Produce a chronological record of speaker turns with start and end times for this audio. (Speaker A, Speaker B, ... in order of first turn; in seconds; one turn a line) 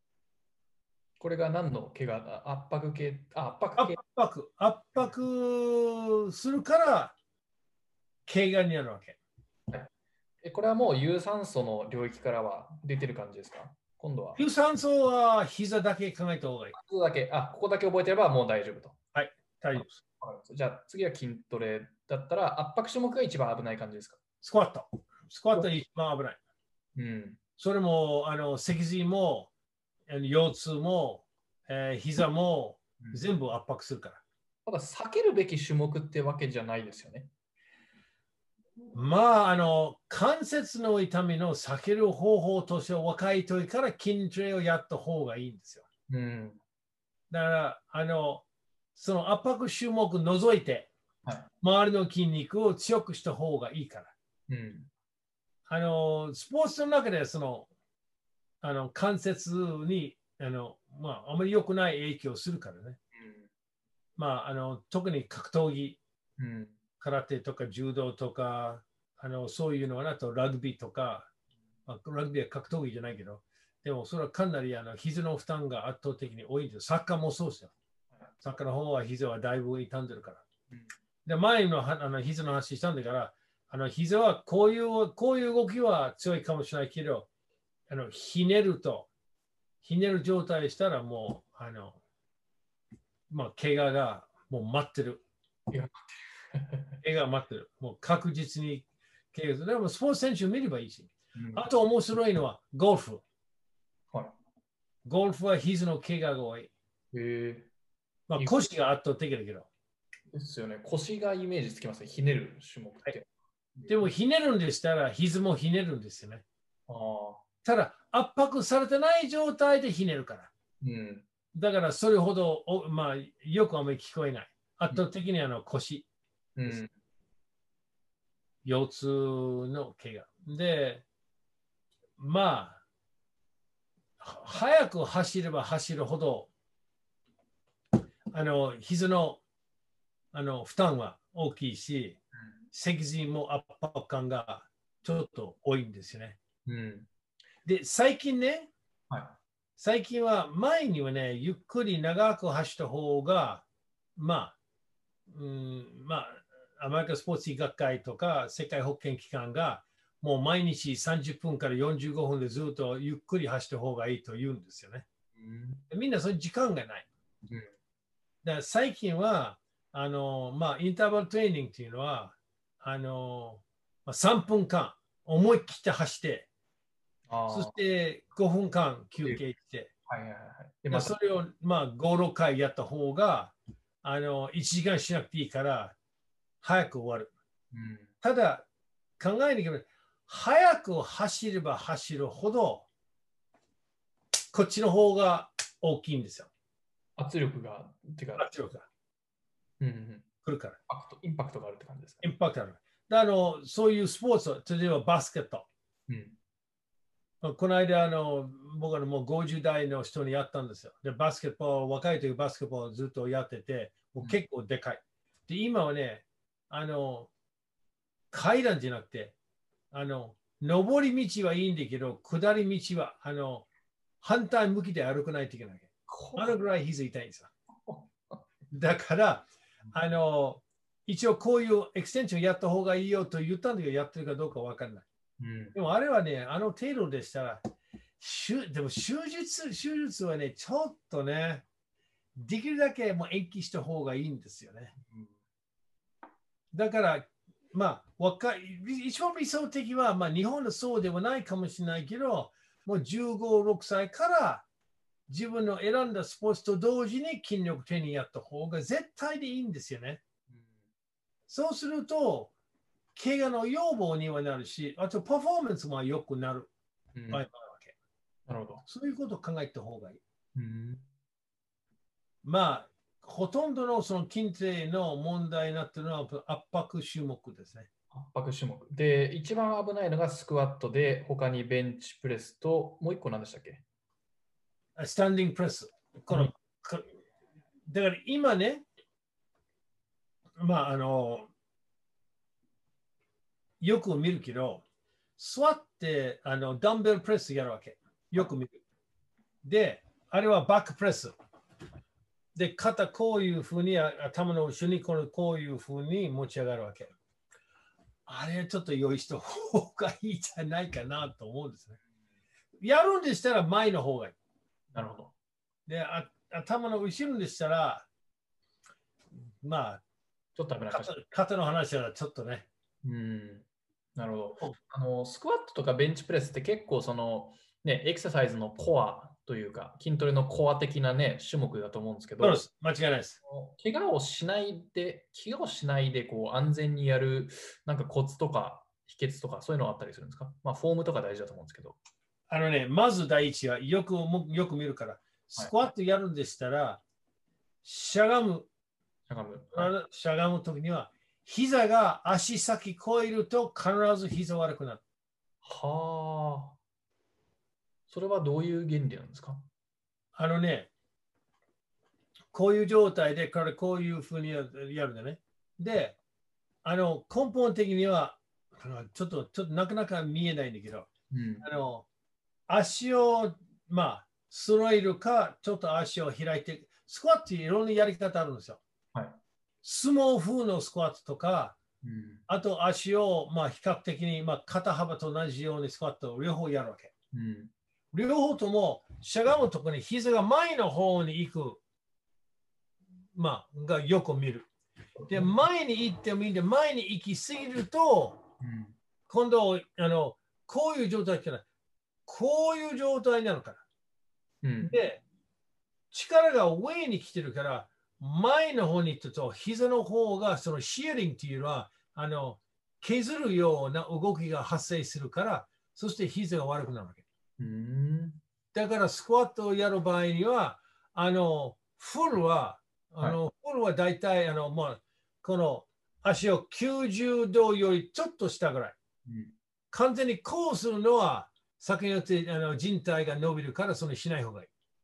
Speaker A: 1.2-4.0
Speaker B: 3.8-7.1
Speaker B: 8.3-9.2
Speaker A: 10.4-14.4
Speaker B: 14.3-16.7
Speaker A: 16.7-19.0
Speaker B: 19.1-20.0
Speaker A: 19.7-24.2
Speaker B: 24.4-26.4
Speaker A: 26.9-27.4
Speaker B: 27.6-29.5
Speaker B: 30.1-34.2
Speaker A: 34.6-37.3
Speaker B: 38.9-45.9
Speaker A: 46.1-46.6
Speaker B: 47.3-50.9
Speaker A: 51.2-51.5
Speaker B: 51.6-54.1
Speaker A: 54.5-54.9
Speaker B: 55.7-57.7
Speaker B: 58.6-63.0
Speaker A: 63.1-63.5
Speaker B: 64.2-66.0
Speaker A: 66.4-66.8
Speaker B: 67.0-71.3
Speaker B: 71.9-77.7
Speaker B: 78.4-80.4
Speaker B: 81.2-87.3
Speaker B: 87.9-89.1
Speaker B: 89.8-92.0
Speaker B: 93.3-95.2
Speaker A: 96.5-97.0
Speaker B: 97.0-103.2
Speaker A: 101.3-101.7
Speaker B: 105.0-106.7
Speaker A: 107.1-107.7
Speaker B: 108.3-109.7
Speaker A: 108.4-108.6
Speaker A: 110.3-114.1
Speaker B: 113.9-116.4
Speaker A: 116.9-117.4
Speaker B: 117.6-120.5
Speaker A: 120.8-121.3
Speaker B: 121.5-126.0
Speaker A: 126.5-126.9
Speaker B: 128.6-131.0
Speaker B: 132.2-132.8
Speaker B: 134.2-136.5
Speaker B: 138.3-139.4
Speaker B: 140.3-142.2
Speaker B: 142.7-146.4
Speaker A: 146.7-147.1
Speaker B: 147.6-148.7
Speaker A: 149.1-149.4
Speaker B: 149.8-153.6
Speaker B: 154.2-154.5
Speaker B: 155.3-165.0
Speaker A: 165.3-165.8
Speaker B: 165.9-167.1
Speaker A: 167.5-167.7
Speaker B: 168.4-176.5
Speaker A: 177.3-177.8
Speaker B: 177.5-179.9
Speaker A: 180.1-181.2
Speaker B: 180.9-185.9
Speaker B: 186.6-187.3
Speaker A: 187.7-188.1
Speaker B: 188.2-188.7
Speaker B: 189.2-192.8
Speaker B: 194.5-196.5
Speaker A: 197.2-198.5
Speaker B: 198.4-198.9
Speaker A: 199.8-200.3
Speaker B: 200.4-200.8
Speaker A: 200.9-202.3
Speaker B: 202.2-205.7
Speaker A: 206.1-206.3
Speaker B: 207.4-217.3
Speaker B: 218.3-219.3
Speaker B: 219.9-223.7
Speaker B: 224.2-227.5
Speaker A: 226.1-226.6
Speaker A: 227.9-228.4
Speaker B: 228.7-235.1
Speaker A: 235.4-235.8
Speaker B: 235.7-237.6
Speaker B: 238.2-241.6
Speaker B: 242.3-244.9
Speaker A: 245.0-245.3
Speaker B: 246.7-254.6
Speaker B: 255.3-260.2
Speaker B: 261.5-262.5
Speaker B: 263.1-266.7
Speaker A: 267.1-267.4
Speaker B: 267.3-267.9
Speaker A: 268.5-268.8
Speaker B: 268.9-270.2
Speaker A: 270.6-271.0
Speaker B: 272.4-277.9
Speaker A: 278.1-283.8
Speaker B: 285.0-287.1
Speaker B: 287.9-288.8
Speaker B: 290.6-291.5
Speaker B: 293.8-294.8
Speaker B: 295.4-298.8
Speaker B: 299.6-301.3
Speaker B: 302.5-307.1
Speaker B: 308.2-312.0
Speaker B: 312.8-314.3
Speaker A: 314.9-315.3
Speaker B: 315.9-318.1
Speaker B: 319.6-320.0
Speaker A: 320.6-321.1
Speaker B: 320.9-322.7
Speaker A: 323.0-323.6
Speaker A: 324.1-332.6
Speaker B: 332.4-333.4
Speaker A: 333.4-342.0
Speaker B: 342.5-347.0
Speaker B: 347.8-348.7
Speaker A: 349.3-349.9
Speaker B: 349.7-355.0
Speaker A: 355.6-356.8
Speaker A: 358.1-359.6
Speaker B: 360.3-360.9
Speaker B: 362.5-366.2
Speaker B: 366.8-372.1
Speaker A: 371.3-371.7
Speaker B: 372.7-378.8
Speaker A: 379.1-379.4
Speaker B: 379.8-381.8
Speaker A: 382.0-382.4
Speaker B: 382.5-387.1
Speaker A: 387.3-387.7
Speaker B: 388.1-391.8
Speaker B: 393.3-394.7
Speaker A: 395.2-395.5
Speaker B: 395.3-398.4
Speaker A: 398.6-398.9
Speaker B: 399.3-401.6
Speaker B: 402.3-403.8
Speaker A: 404.6-404.9
Speaker B: 404.8-405.2
Speaker B: 406.1-417.2
Speaker A: 417.6-418.4
Speaker B: 418.7-429.0
Speaker A: 429.2-429.5
Speaker B: 429.9-434.7